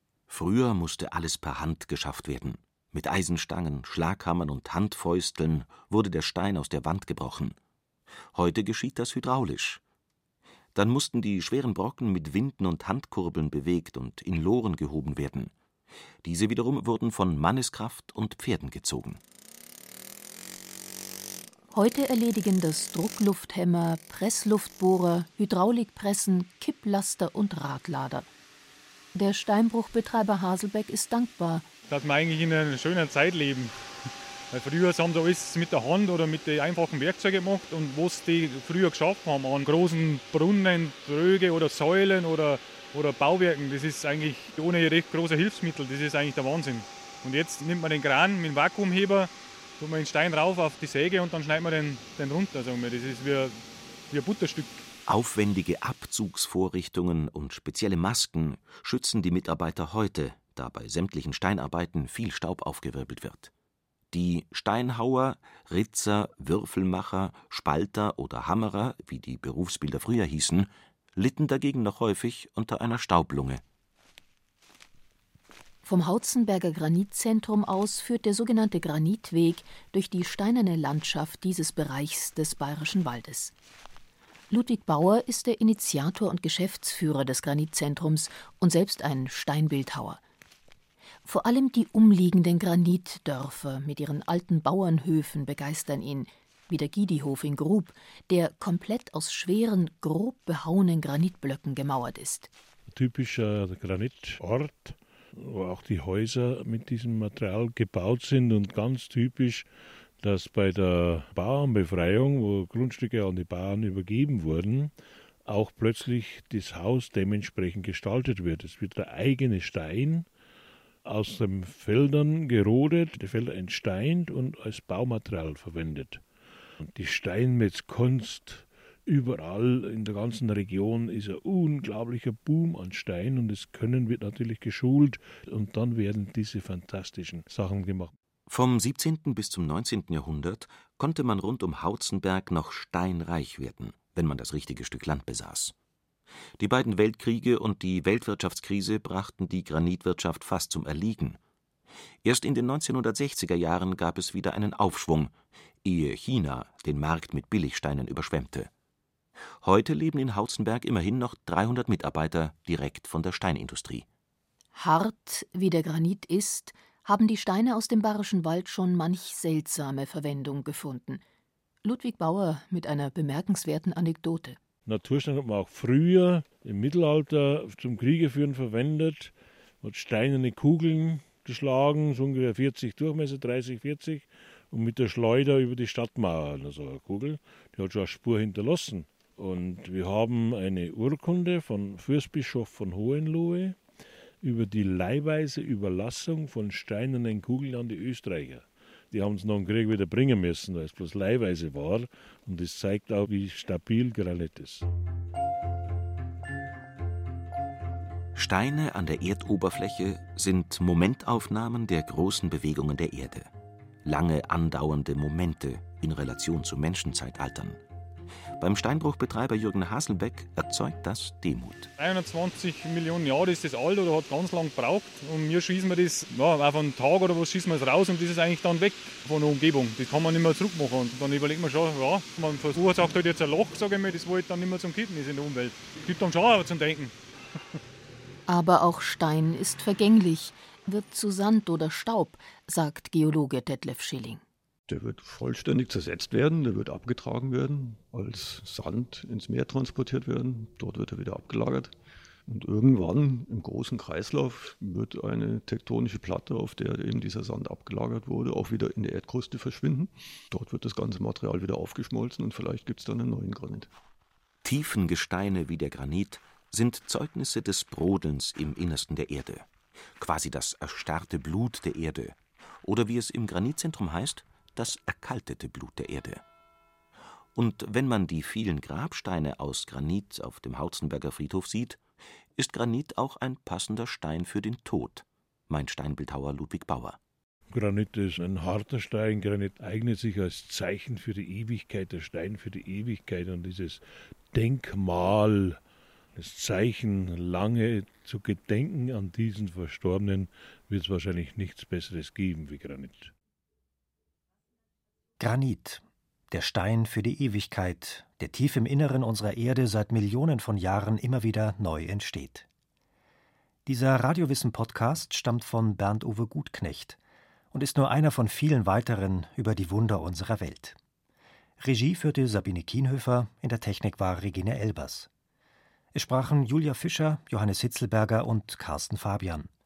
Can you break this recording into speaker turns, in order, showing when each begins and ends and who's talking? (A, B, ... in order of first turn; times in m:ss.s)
0:00.3-0:07.6 A
0:08.3-0:09.8 A
0:10.8-0:15.5 A
0:16.2-0:19.2 A
0:21.7-0:28.3 B
0:29.1-0:31.7 B
0:31.9-0:33.8 C
0:34.5-0:54.8 C
0:55.1-1:03.5 A
1:04.1-1:13.6 A
1:15.8-1:23.5 B
1:24.5-1:30.2 B
1:31.2-1:42.5 B
1:42.9-1:49.7 D
1:50.2-1:54.9 D
1:55.4-2:00.3 D
2:01.0-2:06.2 D
2:06.8-2:18.1 D
2:18.5-2:25.7 A
2:26.6-2:31.4 A
2:32.2-2:35.3 A
2:35.8-2:38.7 A
2:39.6-2:44.0 A
2:44.8-2:51.2 B
2:51.8-2:54.6 B
2:54.9-3:13.8 D
3:14.4-3:24.9 D
3:28.4-3:33.5 A
3:34.0-3:37.8 A
3:38.6-3:41.9 A
3:42.0-3:57.1 C
3:58.5-4:04.4 B
4:04.9-4:11.9 E
4:12.5-4:23.9 E
4:24.6-4:29.6 A
4:30.2-4:36.4 A
4:37.6-4:42.0 A
4:42.6-4:47.2 A
4:47.7-4:54.0 D
4:54.5-4:55.8 D
4:56.4-5:03.3 D
5:05.4-5:12.7 F
5:13.9-5:17.2 F
5:17.7-5:21.0 F
5:21.8-5:25.3 F
5:26.1-5:29.7 F